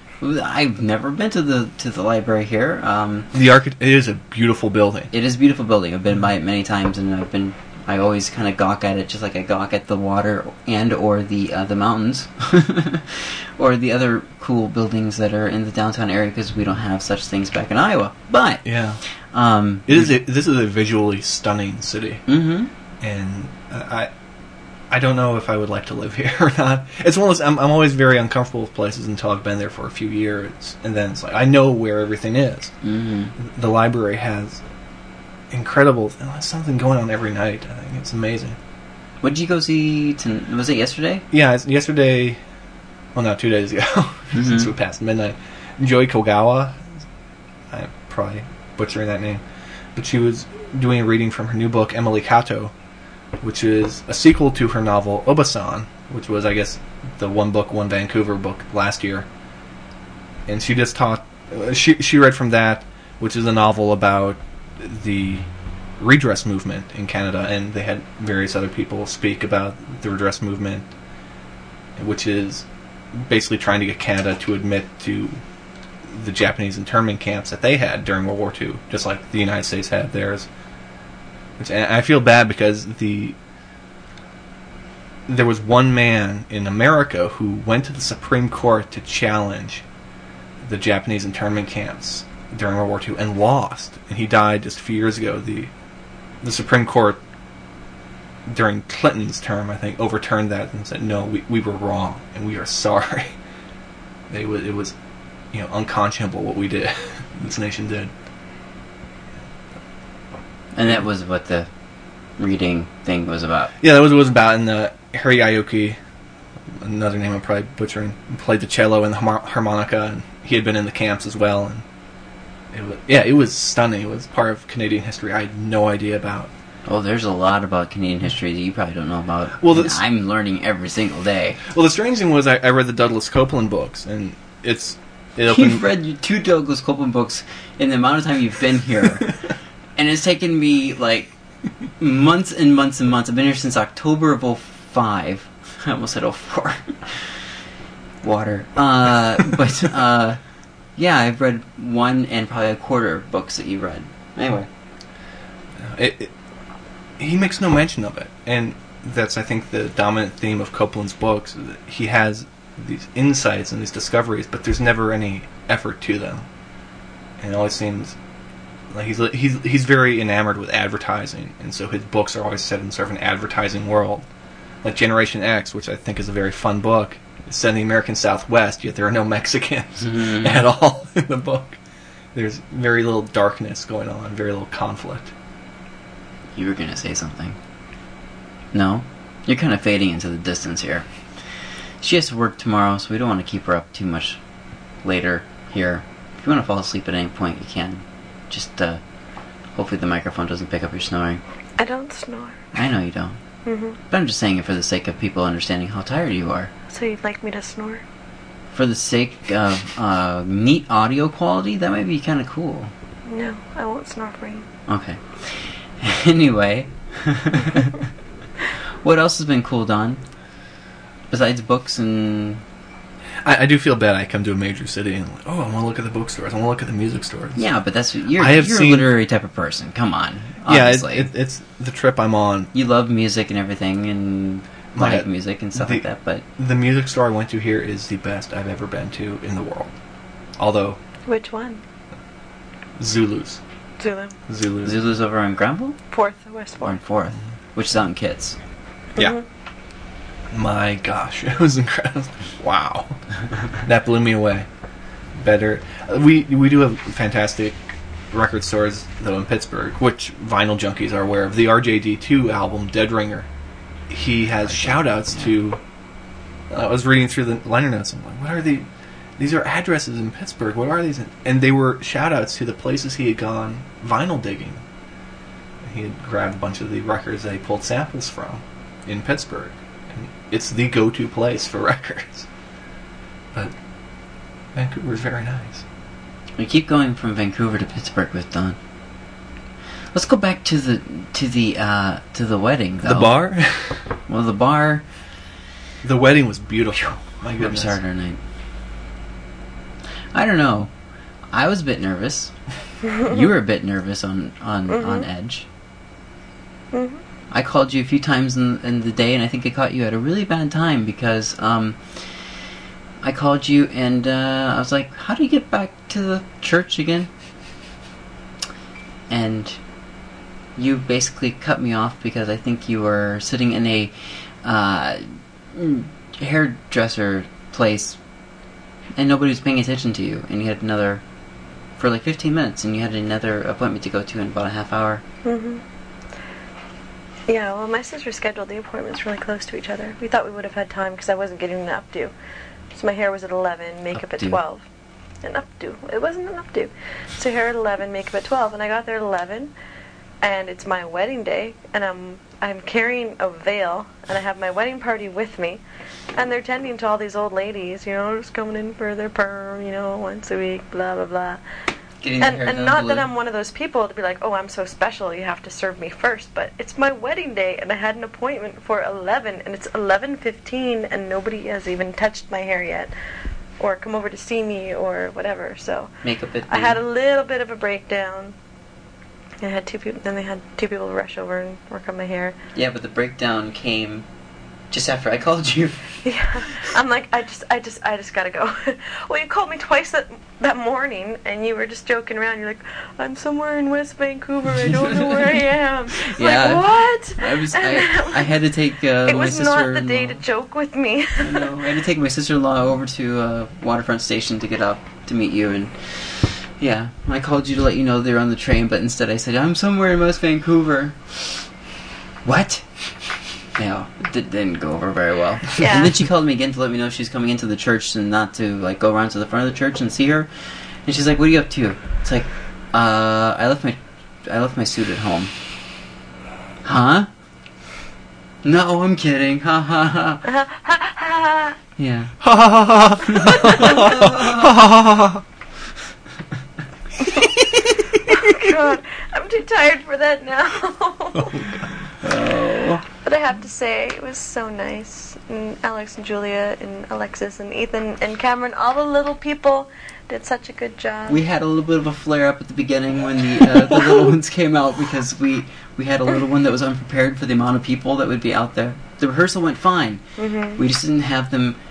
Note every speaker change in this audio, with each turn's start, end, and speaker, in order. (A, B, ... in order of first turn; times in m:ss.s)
0:00.2-0:03.3 A
0:03.3-0:05.1 B
0:05.1-0:18.6 A
0:18.6-0:19.0 B
0:19.3-0:20.1 A
0:19.9-0:22.2 B
0:22.3-0:22.7 A
0:23.0-0:24.1 B
0:24.9-0:32.7 B
0:32.8-0:33.3 A
0:33.4-0:34.6 B
0:35.5-0:38.6 B
0:39.2-0:41.2 A
0:41.3-0:42.4 B
0:43.1-0:46.8 B
0:44.3-0:44.7 A
0:47.7-0:49.4 B
0:49.9-0:52.7 B
0:53.4-0:59.3 B
1:00.5-1:05.5 B
1:06.0-1:10.9 B
1:12.0-1:15.4 B
1:16.1-1:20.5 B
1:21.6-1:23.4 B
1:25.3-1:29.8 B
1:30.6-1:35.7 B
1:36.4-1:37.2 B
1:38.4-1:43.3 B
1:44.3-1:44.9 B
1:45.5-1:48.1 B
1:50.7-1:51.7 A
1:52.4-1:53.7 A
1:53.8-1:56.0 B
1:56.8-2:01.8 B
2:02.7-2:06.5 B
2:06.8-2:11.6 A
2:09.6-2:10.0 B
2:11.7-2:15.8 B
2:15.5-2:19.4 A
2:20.0-2:21.3 A
2:22.0-2:27.3 A
2:28.2-2:30.4 A
2:31.0-2:34.7 A
2:35.8-2:36.3 B
2:37.2-2:46.4 B
2:47.4-2:48.2 B
2:48.9-2:54.2 B
2:54.8-3:01.8 B
3:00.0-3:00.6 A
3:02.3-3:05.3 B
3:06.6-3:07.6 A
3:08.7-3:11.0 A
3:12.0-3:14.4 A
3:15.0-3:19.0 A
3:19.8-3:21.4 A
3:21.8-3:22.6 C
3:22.7-3:23.4 A
3:23.6-3:24.0 C
3:24.1-3:26.7 A
3:26.9-3:28.0 C
3:28.7-3:32.9 A
3:33.3-3:34.7 C
3:34.9-3:38.1 A
3:39.0-3:40.2 A
3:41.3-3:42.6 A
3:43.4-3:47.6 B
3:47.6-3:51.3 A
3:48.4-3:49.1 B
3:50.6-3:52.7 B
3:52.7-3:56.4 A
3:54.9-3:56.0 B
3:56.6-3:59.9 B
4:00.6-4:01.0 B
4:01.3-4:01.8 C
4:03.0-4:03.6 B
4:04.0-4:04.4 C
4:04.5-4:05.0 B
4:04.8-4:06.0 A
4:06.1-4:07.0 C
4:06.8-4:08.6 A
4:09.2-4:09.4 C
4:10.5-4:13.2 B
4:13.8-4:14.7 B
4:15.4-4:17.8 B
4:18.3-4:23.5 B
4:24.1-4:25.8 B
4:26.7-4:34.8 B
4:35.8-4:42.5 B
4:44.7-4:45.8 B
4:46.6-4:48.8 A
4:50.1-4:53.4 A
4:53.0-4:54.0 B
4:54.3-4:55.0 A
4:56.0-4:58.0 B
4:57.6-4:58.4 A
5:00.3-5:00.9 A
5:01.5-5:02.5 A
5:03.1-5:05.6 A
5:04.9-5:05.3 C
5:06.9-5:07.2 C
5:07.5-5:12.5 A
5:13.2-5:17.3 A
5:19.3-5:19.8 A
5:20.8-5:28.2 A
5:29.2-5:31.2 A
5:32.0-5:35.2 A
5:35.4-5:35.8 C
5:37.5-5:42.3 C
5:42.9-5:44.8 C
5:44.1-5:44.6 A
5:45.4-5:49.7 C
5:50.4-5:55.8 C
5:56.3-6:01.6 C
6:02.2-6:03.3 A
6:02.4-6:13.1 C
6:13.8-6:16.1 C
6:16.2-6:17.0 A
6:16.7-6:18.5 C
6:19.6-6:22.6 C
6:22.7-6:24.2 A
6:24.9-6:26.2 A
6:26.2-6:38.5 C
6:34.8-6:35.6 A
6:36.1-6:40.4 A
6:39.2-6:41.7 C
6:41.4-6:51.6 A
6:52.4-6:52.8 A
6:53.8-7:00.5 A
6:55.8-6:56.2 C
7:01.0-7:05.5 A
7:06.8-7:07.3 A
7:08.6-7:10.4 A
7:10.5-7:11.8 C
7:12.0-7:12.4 A
7:12.4-7:15.4 B
7:13.3-7:14.8 A
7:13.3-7:14.1 C
7:17.2-7:21.7 C
7:21.5-7:21.8 B
7:22.2-7:23.0 A
7:23.2-7:31.4 C
7:31.3-7:40.2 A
7:40.4-7:40.8 C
7:40.8-7:41.8 A